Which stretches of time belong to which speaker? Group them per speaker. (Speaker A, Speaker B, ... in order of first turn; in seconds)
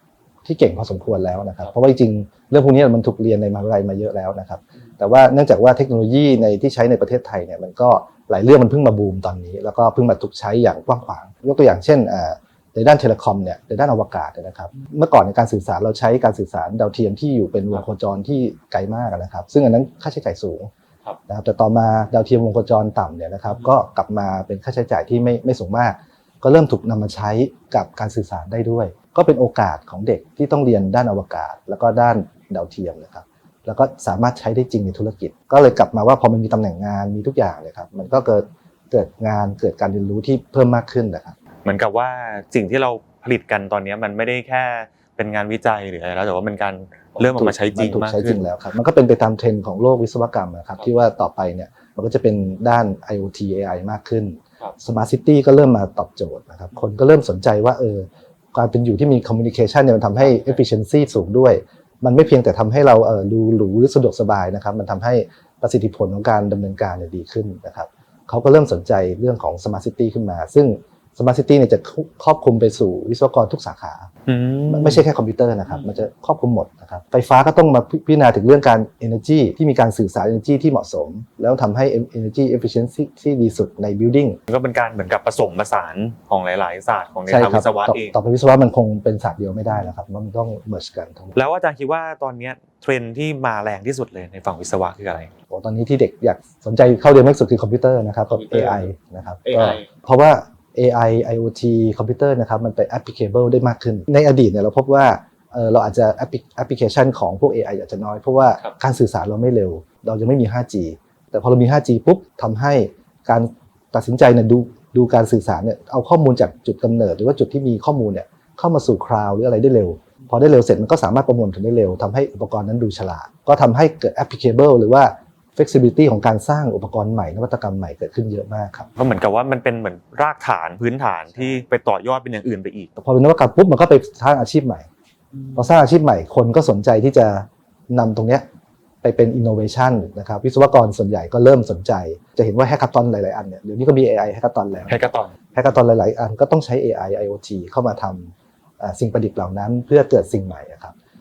Speaker A: 0.4-20.7, 21.3-41.4, 47.2-74.1, 74.7-84.4, 87.3-91.3, 95.5-128.9, 133.0-134.9, 135.6-138.4, 139.0-150.9
Speaker B: 41.6-48.4, 60.2-60.6, 74.2-75.0, 84.5-88.1, 91.3-95.3, 98.3-98.9, 99.4-99.9, 128.9-132.9, 135.3-135.7, 144.9-145.3